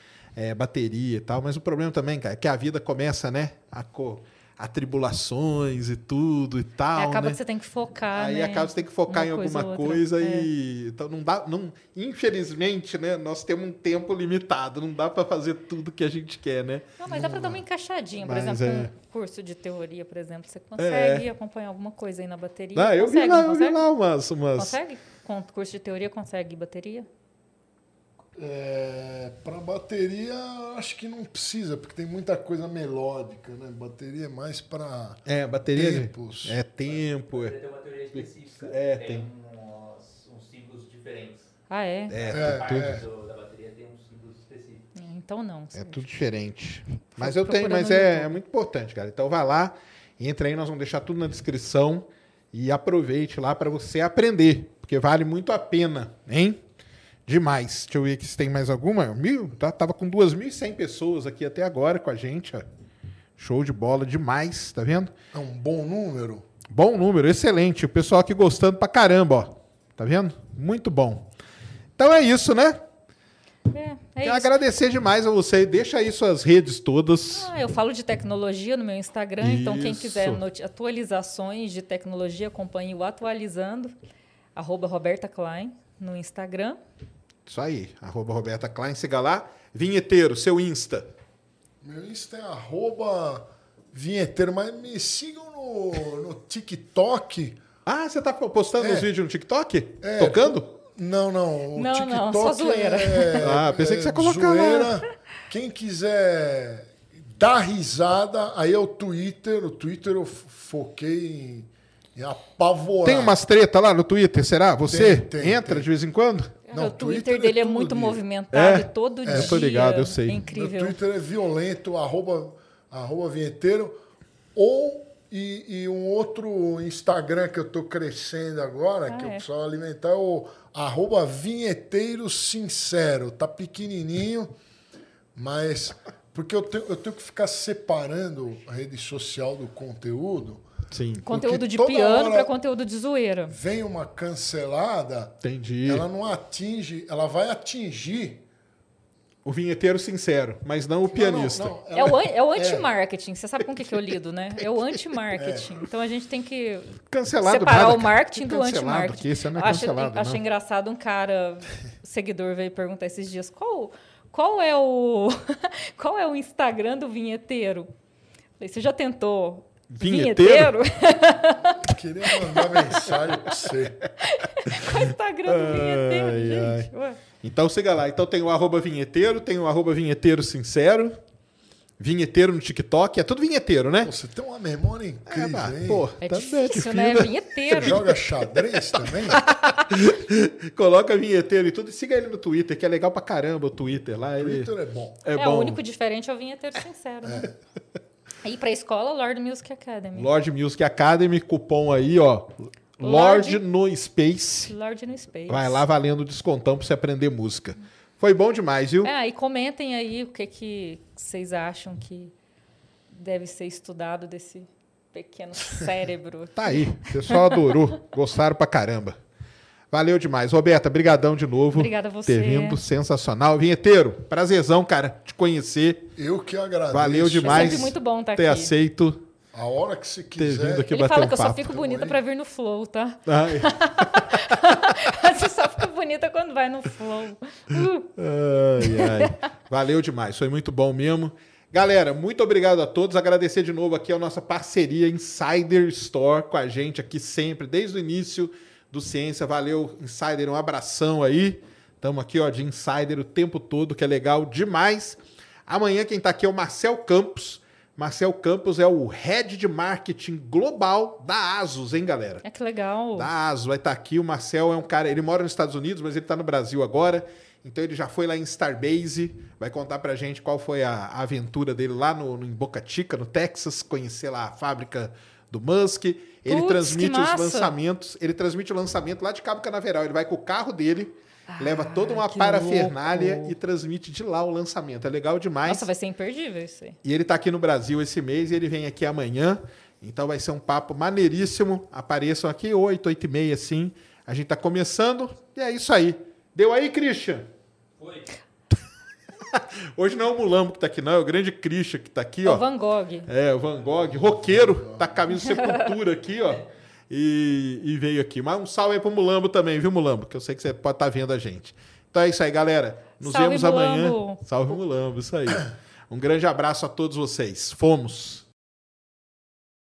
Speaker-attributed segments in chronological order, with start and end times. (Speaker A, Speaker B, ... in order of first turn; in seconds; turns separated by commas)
Speaker A: 0.3-7.4, Speaker B: 6.9-10.5, Speaker A: 8.1-17.6, Speaker B: 17.0-23.8, Speaker A: 18.2-18.9, Speaker A: 20.8-21.3, Speaker A: 22.7-24.8, Speaker B: 24.6-27.1, Speaker C: 28.4-36.6, Speaker A: 35.2-37.6, Speaker D: 36.9-41.5, Speaker A: 38.1-39.3, Speaker B: 41.7-42.1, Speaker A: 42.1-43.0, Speaker D: 42.2-44.9, Speaker C: 42.3-43.0, Speaker B: 44.9-46.0, Speaker A: 45.7-56.6, Speaker B: 47.1-48.3, Speaker A: 57.3-62.6, Speaker A: 63.4-65.1, Speaker C: 65.3-66.5, Speaker A: 66.7-71.3, Speaker A: 72.0-72.8, Speaker B: 73.7-74.5, Speaker A: 74.2-77.5, Speaker B: 77.3-83.9, Speaker A: 79.4-80.4, Speaker B: 84.5-86.8, Speaker A: 87.5-91.1, Speaker C: 91.8-97.6, Speaker A: 97.8-100.7, Speaker C: 98.8-99.1, Speaker C: 100.0-113.4, Speaker B: 101.7-103.5, Speaker A: 103.4-105.0, Speaker A: 113.0-116.6, Speaker C: 114.9-115.9, Speaker B: 116.7-121.0, Speaker C: 116.7-118.2, Speaker A: 118.5-120.4, Speaker C: 119.2-119.6, Speaker C: 120.4-124.0, Speaker C: 124.5-134.6, Speaker B: 129.1-129.4, Speaker C: 135.3-140.7, Speaker A: 140.9-141.2, Speaker B: 141.2-143.6, Speaker C: 141.3-142.5, Speaker C: 143.5-148.4, Speaker A: 145.4-146.1, Speaker A: 149.4-151.7, Speaker C: 151.1-152.9, Speaker B: 151.9-167.9, Speaker C: 155.3-155.7, Speaker A: 157.1-160.4, Speaker B: 168.6-173.2, Speaker A: 169.9-170.7, Speaker C: 171.8-174.0, Speaker B: 174.2-177.2, Speaker A: 175.5-176.9, Speaker A: 177.4-181.2, Speaker A: 182.0-184.1, Speaker C: 184.0-186.1, Speaker A: 185.3-188.1, Speaker B: 186.2-188.0, Speaker C: 187.7-189.4, Speaker A: 188.7-194.7, Speaker C: 194.4-195.2, Speaker A: 195.2-195.8, Speaker B: 195.3-197.5, Speaker C: 197.2-197.5, Speaker B: 198.4-200.3, Speaker A: 200.1-204.7, Speaker B: 203.0-203.6, Speaker B: 204.7-205.8, Speaker A: 205.5-209.1, Speaker B: 209.0-212.3, Speaker B: 213.1-217.8, Speaker A: 216.6-219.2, Speaker A: 219.9-226.1, Speaker B: 221.8-222.8, Speaker C: 226.2-227.9, Speaker A: 226.9-229.2, Speaker B: 227.4-228.7, Speaker C: 229.5-230.9, Speaker A: 230.4-231.7, Speaker B: 230.9-238.1, Speaker C: 231.6-232.2, Speaker A: 233.3-234.4, Speaker A: 238.2-262.4, Speaker B: 238.8-239.3, Speaker B: 262.4-263.3, Speaker A: 263.1-285.9, Speaker B: 276.4-277.7, Speaker B: 281.5-283.5, Speaker B: 285.6-287.0, Speaker A: 287.0-297.5, Speaker D: 298.0-298.3, Speaker A: 299.5-302.7, Speaker B: 302.4-303.3, Speaker A: 303.3-318.4, Speaker C: 304.3-305.2, Speaker B: 305.4-305.6, Speaker B: 313.2-314.4